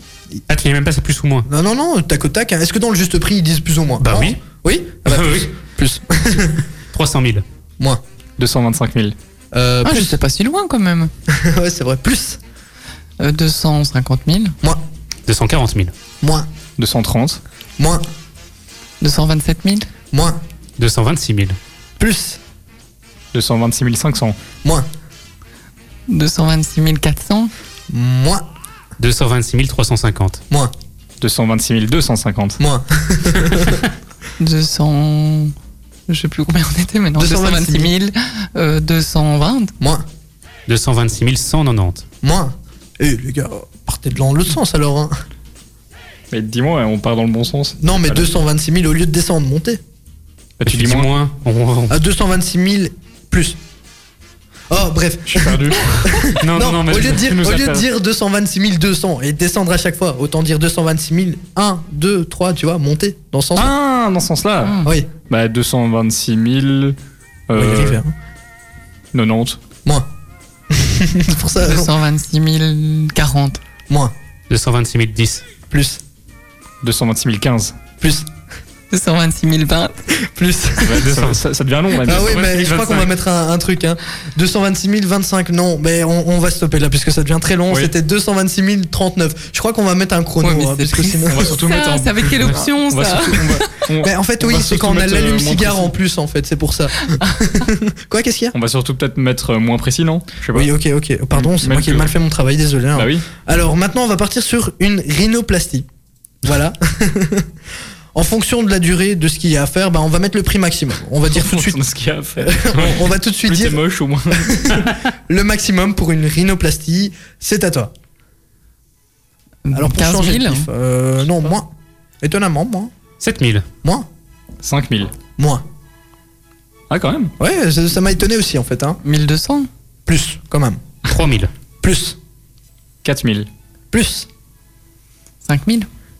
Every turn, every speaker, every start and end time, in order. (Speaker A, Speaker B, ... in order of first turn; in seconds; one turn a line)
Speaker A: 0.5-1.4
Speaker B: 1.5-6.6
Speaker A: 4.0-4.4
Speaker A: 5.0-5.5
Speaker A: 6.9-7.4
Speaker C: 8.4-9.1
Speaker B: 9.5-10.2
Speaker D: 9.8-11.1
Speaker B: 11.3-12.4
Speaker D: 13.2-14.5
Speaker A: 15.3-15.9
Speaker B: 16.2-16.5
Speaker C: 16.8-17.4
Speaker B: 17.8-18.1
Speaker D: 19.0-19.9
Speaker B: 20.1-20.4
Speaker A: 20.8-21.6
Speaker B: 22.0-22.4
Speaker C: 23.3-24.4
Speaker D: 26.1-27.5
Speaker B: 27.9-28.4
Speaker A: 29.0-30.4
Speaker C: 31.2-32.6
Speaker B: 32.6-33.8
Speaker D: 34.4-35.5
Speaker D: 36.1-39.7
Speaker B: 37.2-37.9
Speaker B: 39.8-40.0
Speaker A: 40.7-42.0
Speaker B: 42.2-45.1
Speaker C: 46.3-48.3
Speaker B: 47.8-49.8
Speaker C: 50.6-51.1
Speaker A: 50.6-52.0
Speaker B: 51.9-53.6
Speaker B: 54.7-63.7
Speaker C: 55.3-56.2
Speaker A: 56.4-57.4
Speaker C: 57.0-57.8
Speaker C: 63.5-67.0
Speaker D: 64.6-64.9
Speaker C: 67.5-68.0
Speaker B: 67.5-68.1
Speaker C: 69.1-69.6
Speaker B: 70.7-71.9
Speaker D: 71.6-73.6
Speaker A: 74.5-75.4
Speaker B: 75.7-76.0
Speaker C: 76.8-77.8
Speaker B: 78.0-78.3
Speaker D: 78.9-79.9
Speaker B: 80.2-81.2
Speaker C: 80.8-82.4
Speaker A: 81.0-81.4
Speaker B: 82.0-91.5
Speaker A: 82.1-83.1
Speaker C: 87.7-87.9
Speaker D: 90.4-93.7
Speaker C: 91.3-95.9
Speaker B: 94.0-98.5
Speaker C: 98.5-100.7
Speaker B: 100.5-105.8
Speaker C: 101.3-102.2
Speaker C: 102.9-103.2
Speaker B: 106.4-107.5
Speaker B: 108.1-111.8
Speaker C: 111.3-114.8
Speaker B: 112.4-117.9
Speaker D: 119.7-120.7
Speaker B: 119.7-121.7
Speaker B: 122.2-122.9
Speaker A: 123.2-123.7
Speaker C: 124.6-125.1
Speaker B: 125.4-125.6
Speaker C: 126.9-127.3
Speaker B: 127.4-129.0
Speaker D: 129.0-129.7
Speaker B: 130.1-130.8
Speaker A: 131.1-131.5
Speaker B: 131.8-132.2
Speaker C: 133.0-133.5
Speaker B: 133.9-134.3
Speaker D: 135.4-135.9